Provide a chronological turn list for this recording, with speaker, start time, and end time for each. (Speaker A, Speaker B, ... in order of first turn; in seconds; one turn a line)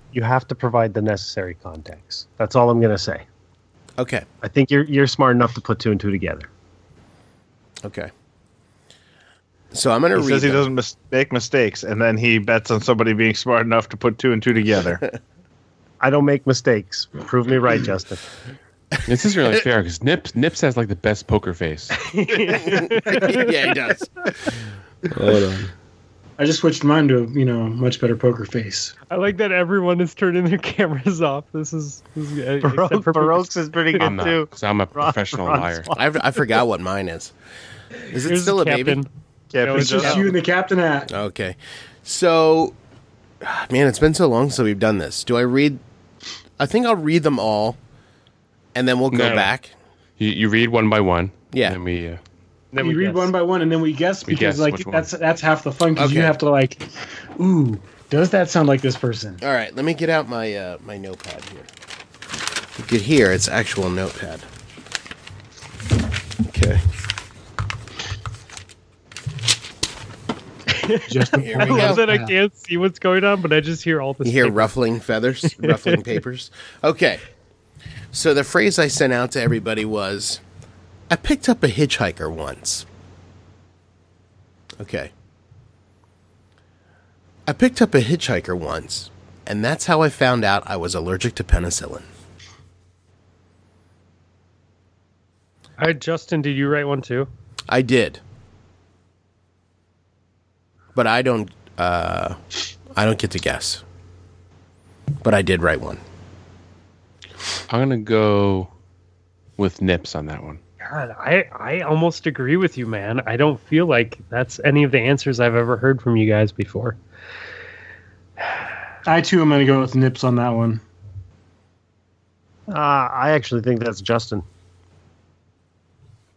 Speaker A: 0.1-3.2
Speaker B: 4.0-4.2
Speaker A: 4.4-6.5
Speaker B: 7.8-8.1
Speaker B: 9.7-10.7
Speaker C: 10.1-15.0
Speaker A: 16.0-18.2
Speaker D: 19.1-22.0
Speaker E: 22.0-23.7
Speaker B: 22.5-24.3
Speaker D: 25.2-25.7
Speaker F: 26.4-28.9
Speaker E: 29.1-34.0
Speaker A: 32.6-36.0
Speaker D: 34.0-35.9
Speaker B: 35.9-37.3
Speaker B: 38.1-39.0
Speaker E: 38.1-39.1
Speaker C: 39.5-40.3
Speaker E: 39.6-40.3
Speaker F: 39.7-41.1
Speaker B: 41.1-42.7
Speaker B: 43.4-45.8
Speaker B: 46.6-47.8
Speaker B: 48.7-49.7
Speaker D: 49.1-49.5
Speaker D: 50.2-52.2
Speaker E: 52.7-53.3
Speaker F: 52.8-56.8
Speaker D: 54.2-55.1
Speaker B: 56.0-56.4
Speaker F: 57.4-59.4
Speaker B: 59.4-61.7
Speaker B: 62.8-64.5
Speaker B: 66.5-66.8
Speaker E: 70.7-74.7
Speaker F: 71.1-72.3
Speaker B: 71.4-72.0
Speaker B: 74.2-77.2
Speaker E: 75.4-76.0
Speaker B: 78.1-80.4
Speaker B: 81.1-82.8
Speaker B: 84.8-85.1
Speaker B: 87.5-92.1
Speaker E: 95.8-97.3
Speaker B: 97.7-98.2
Speaker B: 100.9-102.4
Speaker B: 102.9-103.8
Speaker B: 105.2-106.0
Speaker D: 107.7-108.7
Speaker D: 109.6-110.6
Speaker E: 110.8-117.0
Speaker F: 119.0-120.8
Speaker A: 122.7-124.4